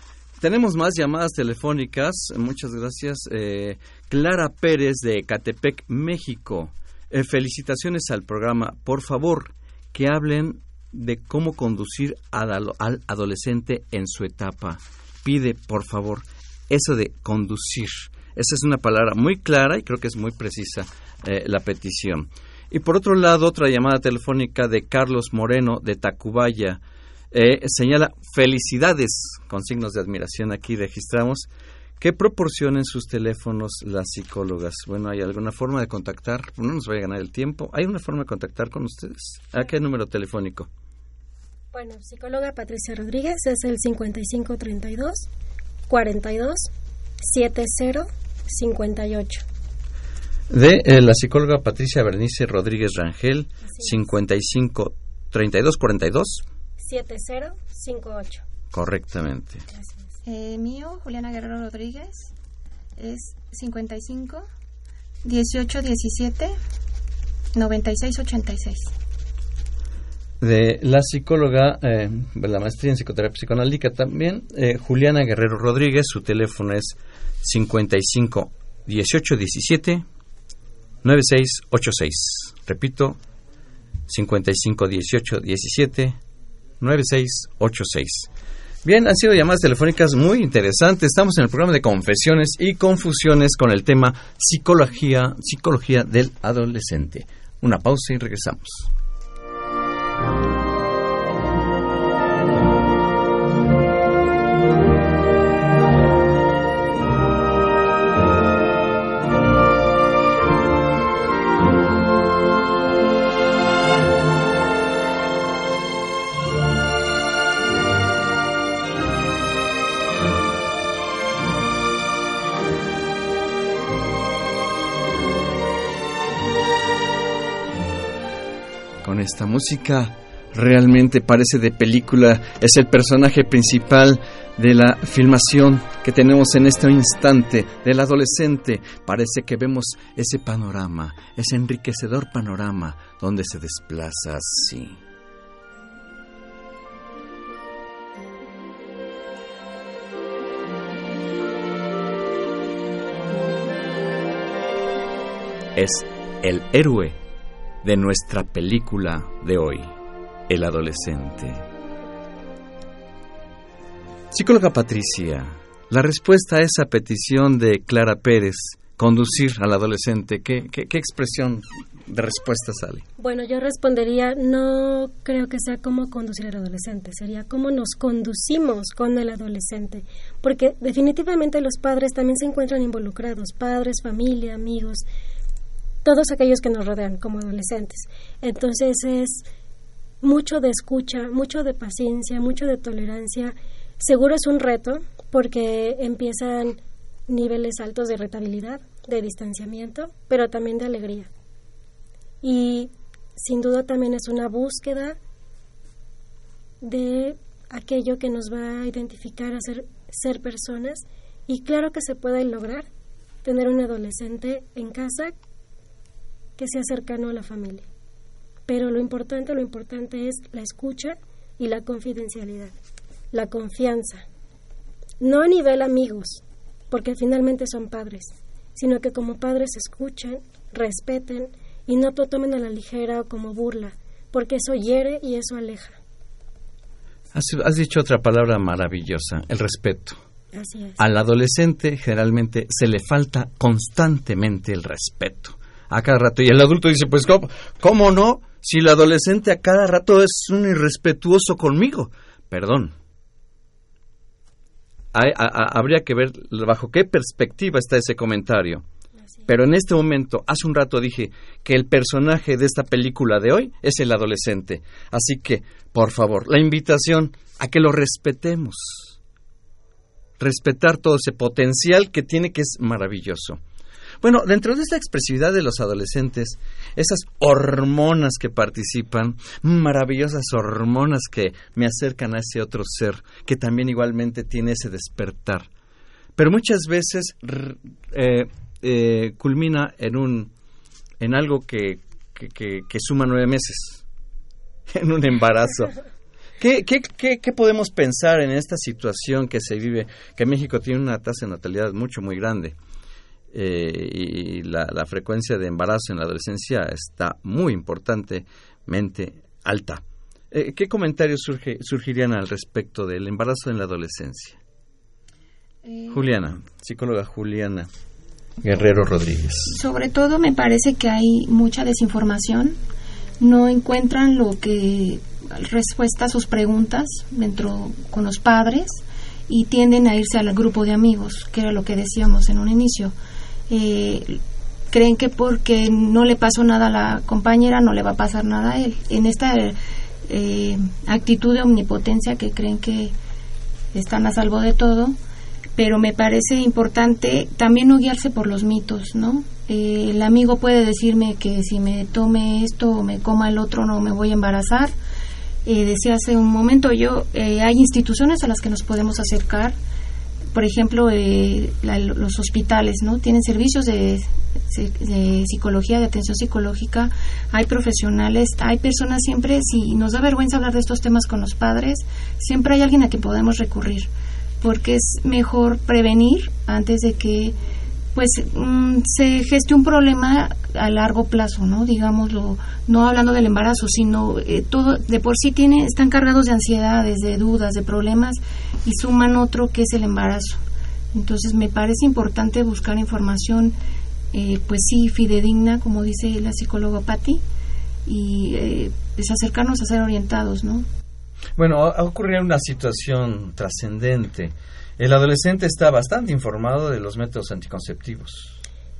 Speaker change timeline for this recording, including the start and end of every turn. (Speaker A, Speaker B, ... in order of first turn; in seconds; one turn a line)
Speaker A: 0.4-26.8
Speaker A: 27.3-31.5
Speaker A: 32.0-40.7
Speaker B: 41.7-45.3
Speaker B: 45.9-46.7
Speaker B: 47.2-49.5
Speaker A: 50.5-56.4
Speaker B: 53.7-54.0
Speaker B: 56.8-58.5
Speaker A: 58.7-59.6
Speaker B: 59.7-60.1
Speaker C: 60.2-62.3
Speaker C: 63.0-64.5
Speaker C: 65.2-66.5
Speaker C: 67.5-68.9
Speaker A: 70.4-80.0
Speaker A: 81.0-83.2
Speaker A: 84.1-86.2
Speaker A: 86.8-88.3
Speaker A: 88.8-98.9
Speaker A: 129.0-145.0
Speaker A: 155.8-157.2
Speaker A: 157.8-159.9
Speaker A: 160.5-161.6
Speaker A: 164.3-173.1
Speaker B: 173.2-185.1
Speaker B: 186.0-189.4
Speaker B: 190.2-201.3
Speaker B: 202.4-205.2
Speaker B: 206.8-212.9
Speaker B: 213.4-215.3
Speaker B: 216.6-217.9
Speaker B: 218.7-222.7
Speaker B: 223.3-224.2
Speaker B: 225.2-236.0
Speaker A: 237.3-240.2
Speaker B: 240.5-241.0
Speaker A: 241.0-252.9
Speaker A: 255.1-258.9
Speaker A: 259.5-269.2
Speaker A: 270.4-273.6
Speaker A: 274.2-285.7
Speaker A: 286.4-290.5
Speaker A: 291.2-294.0
Speaker A: 294.9-295.9
Speaker A: 296.6-302.8
Speaker A: 303.5-314.6
Speaker C: 315.8-316.3
Speaker A: 316.1-317.9
Speaker A: 318.6-319.8
Speaker C: 319.7-322.8
Speaker C: 323.4-333.1
Speaker C: 333.7-343.1
Speaker C: 343.9-345.2
Speaker C: 345.8-354.9
Speaker C: 355.6-359.8
Speaker C: 360.5-374.1
Speaker C: 374.6-377.6
Speaker C: 378.1-390.6
Speaker C: 391.1-393.8
Speaker C: 394.3-397.4
Speaker C: 398.1-400.9
Speaker A: 401.6-408.6